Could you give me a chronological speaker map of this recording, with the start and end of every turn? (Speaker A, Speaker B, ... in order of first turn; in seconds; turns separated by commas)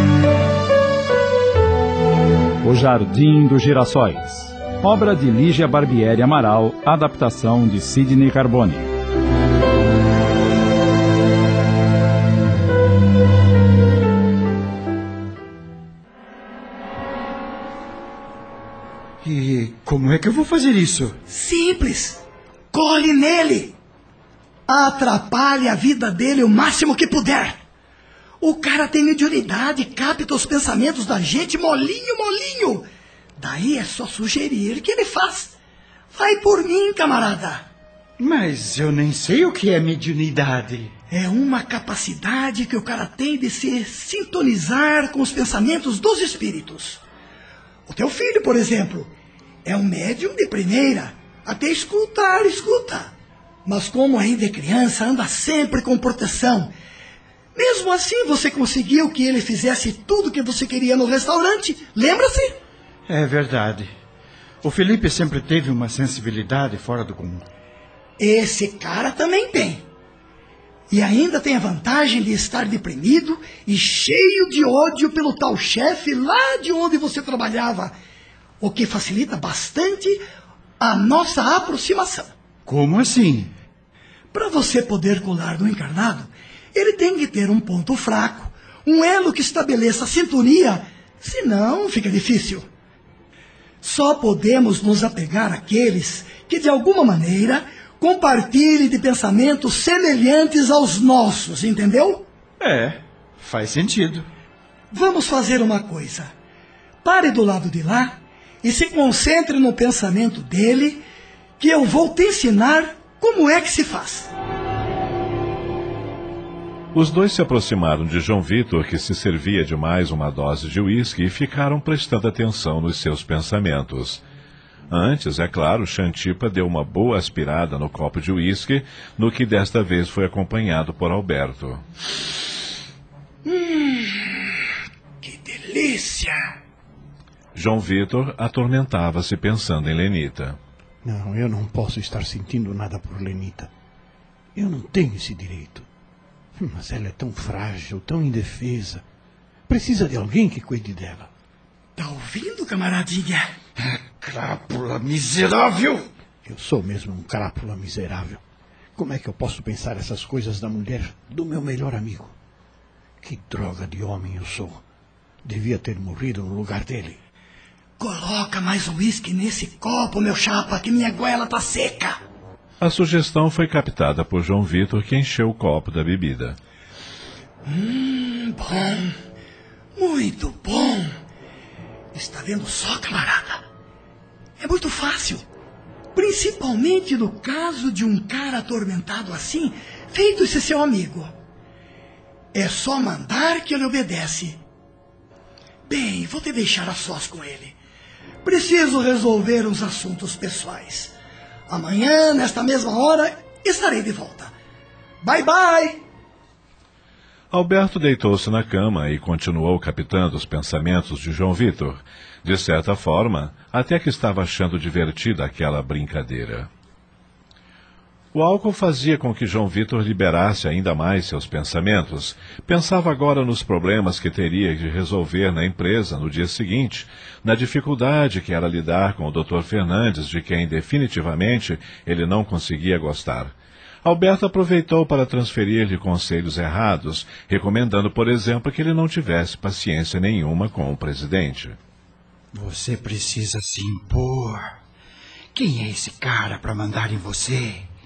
Speaker A: 2.6-8.9, Speaker B: 19.2-21.2, Speaker C: 21.3-23.8, Speaker C: 24.7-27.6, Speaker C: 28.4-32.9, Speaker C: 33.4-35.6, Speaker C: 36.1-37.7, Speaker B: 38.2-40.9, Speaker C: 41.1-47.0, Speaker C: 47.9-49.1, Speaker C: 49.6-53.1, Speaker C: 53.6-56.7, Speaker C: 57.5-62.6, Speaker B: 63.1-63.9, Speaker B: 64.6-67.5, Speaker C: 68.2-69.9, Speaker C: 70.9-78.0, Speaker C: 78.6-80.2, Speaker C: 80.8-82.3, Speaker B: 82.7-83.5, Speaker C: 84.3-92.7, Speaker C: 93.8-102.3, Speaker B: 102.6-104.3, Speaker C: 104.9-106.3, Speaker C: 107.0-111.0, Speaker C: 111.6-114.3, Speaker D: 116.9-124.2, Speaker D: 124.9-131.8, Speaker C: 133.4-134.5, Speaker C: 135.2-136.4, Speaker D: 137.6-140.6, Speaker E: 141.0-143.7, Speaker E: 144.6-145.9, Speaker E: 146.6-149.0, Speaker E: 149.7-151.3, Speaker C: 152.0-153.5, Speaker B: 154.2-156.1, Speaker E: 156.4-158.4, Speaker E: 159.0-162.3, Speaker E: 163.2-164.8, Speaker E: 165.4-167.2, Speaker C: 168.0-172.2, Speaker D: 172.8-176.6, Speaker C: 177.7-179.1, Speaker C: 180.0-181.1, Speaker C: 182.1-183.7, Speaker C: 184.6-185.5, Speaker C: 186.2-191.3, Speaker C: 192.5-194.6, Speaker C: 195.9-197.8, Speaker C: 198.4-201.1, Speaker C: 201.7-204.6, Speaker C: 205.2-206.0, Speaker D: 207.5-216.7, Speaker D: 218.3-241.8, Speaker B: 242.5-244.7, Speaker B: 245.6-247.8